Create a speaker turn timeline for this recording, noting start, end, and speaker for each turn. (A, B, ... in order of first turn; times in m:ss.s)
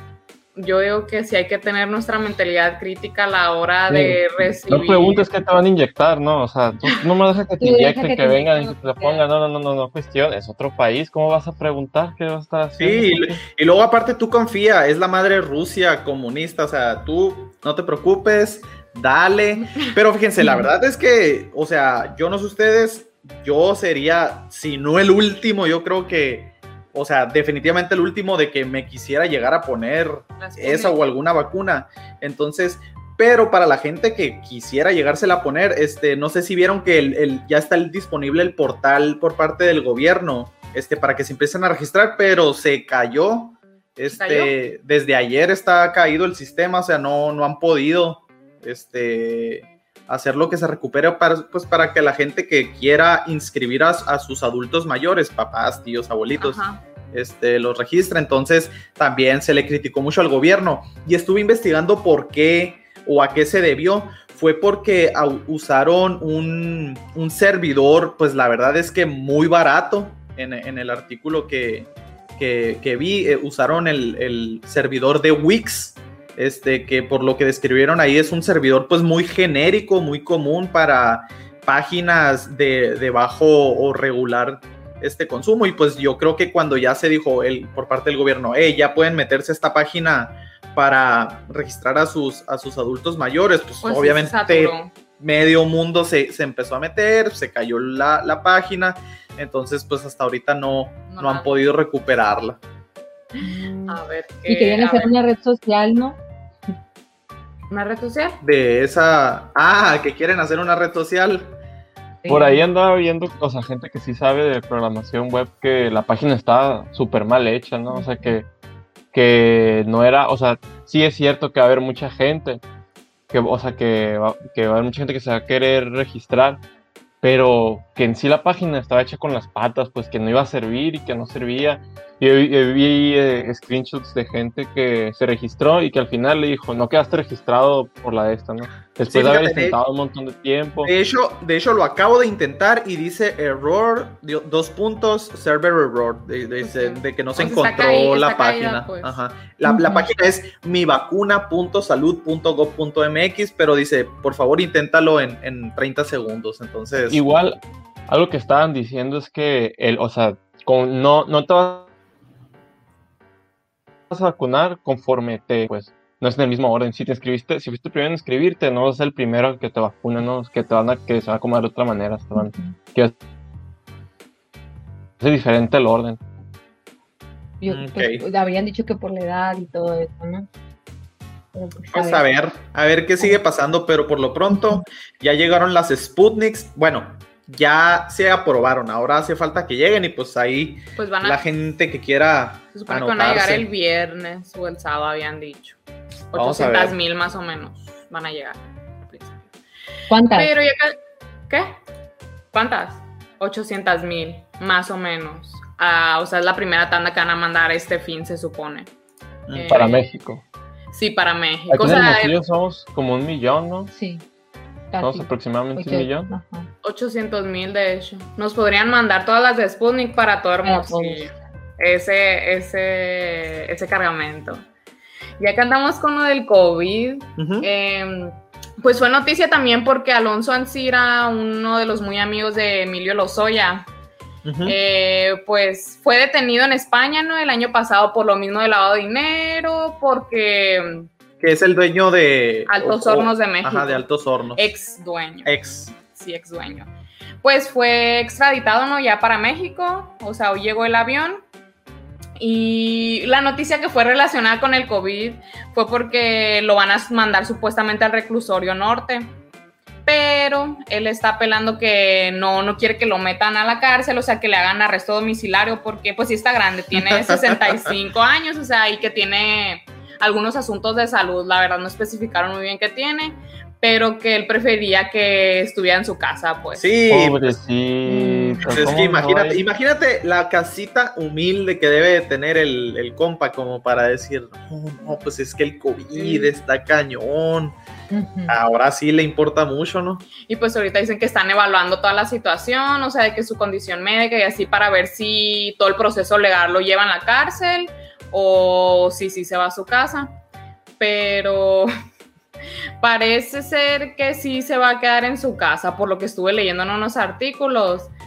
0:00.6-0:05.3 A
0:03.9-0:13.2 B
0:07.6-0:09.2 C
0:12.8-1:42.6 D
0:20.4-0:20.7 C
0:30.4-0:31.0 A
0:44.1-0:44.5 A
0:56.4-0:56.8 A
1:33.8-1:34.9 A
1:41.1-1:41.6 A
1:43.4-1:46.2 C
1:43.4-1:45.1 A
1:47.7-1:48.4 A
1:48.4-1:51.6 D
1:52.2-1:52.6 C
1:52.3-1:58.5 B
1:57.9-1:58.4 C
1:59.1-2:02.6 B
2:03.3-2:06.6 B
2:07.2-2:20.9 B
2:19.1-2:19.8 D
2:20.8-2:37.2 D
2:26.6-2:29.2 A
2:29.6-2:30.1 C
2:37.1-2:41.9 B
2:44.1-2:53.1 B
2:52.4-2:52.8 C
2:55.2-2:56.2 B
2:57.6-3:00.5 C
2:57.7-2:58.2 D
3:01.5-3:02.3 C
3:01.9-3:13.7 D
3:04.5-3:04.8 C
3:11.0-3:11.4 A
3:12.7-3:15.8 A
3:16.3-3:19.5 A
3:16.4-3:17.0 D
3:20.1-3:20.5 C
3:20.3-3:21.0 A
3:21.5-3:21.8 A
3:22.5-3:28.9 A
3:29.5-3:29.9 D
3:29.5-3:30.1 A
3:29.7-3:30.4 B
3:30.9-3:32.4 A
3:31.7-3:33.9 B
3:33.9-3:34.2 C
3:34.9-3:36.7 C
3:35.0-3:36.3 B
3:36.8-3:44.7 A
3:40.6-3:41.3 C
3:45.4-3:53.9 A
3:47.4-3:47.7 D
3:54.4-3:54.8 D
3:54.6-4:01.1 A
4:01.4-4:04.7 D
4:02.7-4:04.0 A
4:04.6-4:06.9 A
4:05.4-4:05.9 D
4:07.4-4:11.4 A
4:12.4-4:19.3 A
4:20.1-4:36.9 A
4:27.0-4:28.0 D
4:36.8-4:37.6 D
4:37.1-4:39.6 B
4:38.0-4:38.7 C
4:38.6-4:47.8 D
4:46.2-4:46.5 A
4:48.1-4:48.6 C
4:48.5-4:50.2 D
4:50.5-5:00.3 A
5:01.0-5:01.9 A
5:03.0-5:08.1 A